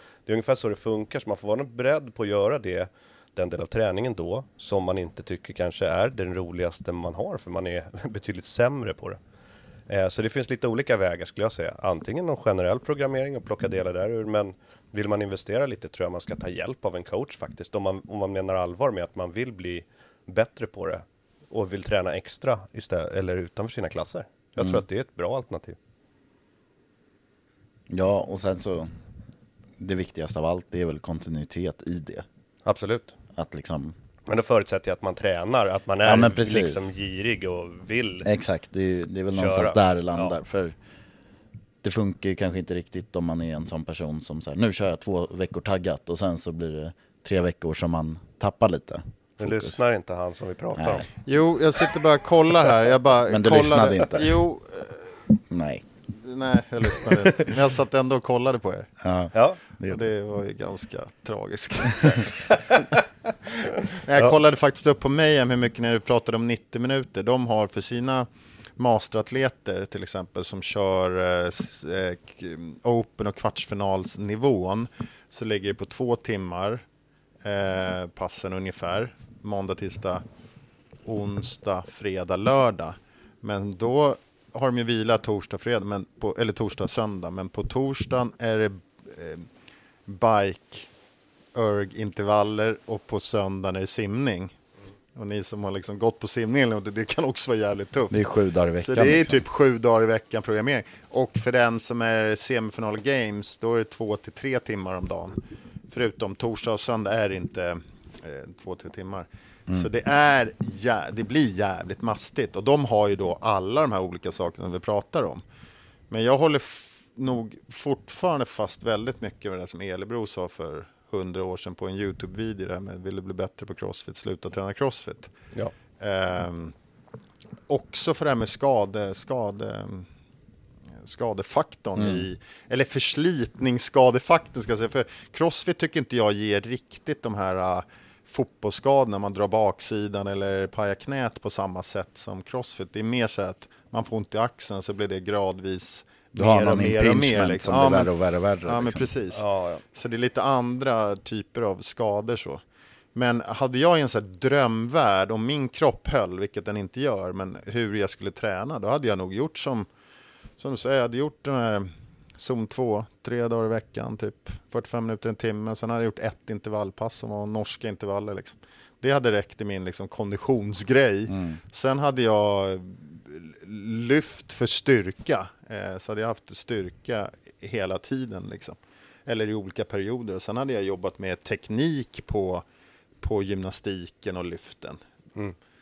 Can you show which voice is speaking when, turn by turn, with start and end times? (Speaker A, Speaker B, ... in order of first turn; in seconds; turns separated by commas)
Speaker A: 0.2-9.2, Speaker A: 9.9-25.8, Speaker B: 27.9-28.9, Speaker B: 29.8-32.2, Speaker A: 32.6-33.1, Speaker B: 33.4-33.9, Speaker A: 34.3-38.3, Speaker B: 36.0-36.9, Speaker B: 38.2-40.7, Speaker A: 39.3-40.3, Speaker B: 41.8-49.8, Speaker A: 49.4-51.1, Speaker B: 50.8-51.1, Speaker C: 51.2-55.1, Speaker B: 53.3-54.4, Speaker B: 55.5-55.8, Speaker C: 56.1-58.9, Speaker B: 59.0-60.0, Speaker C: 59.8-62.5, Speaker C: 63.9-76.8, Speaker C: 77.4-80.2, Speaker C: 81.0-89.5, Speaker C: 90.0-90.9, Speaker C: 91.5-94.5, Speaker C: 95.1-98.2, Speaker B: 98.1-99.4, Speaker C: 98.8-115.4, Speaker C: 116.1-125.3, Speaker C: 126.0-126.7, Speaker C: 127.7-130.1, Speaker C: 131.0-148.1, Speaker B: 132.0-132.2, Speaker B: 146.3-149.1, Speaker C: 148.6-152.6, Speaker A: 149.3-149.8, Speaker C: 153.1-159.9, Speaker C: 160.6-182.6, Speaker B: 171.3-171.6, Speaker C: 183.2-185.0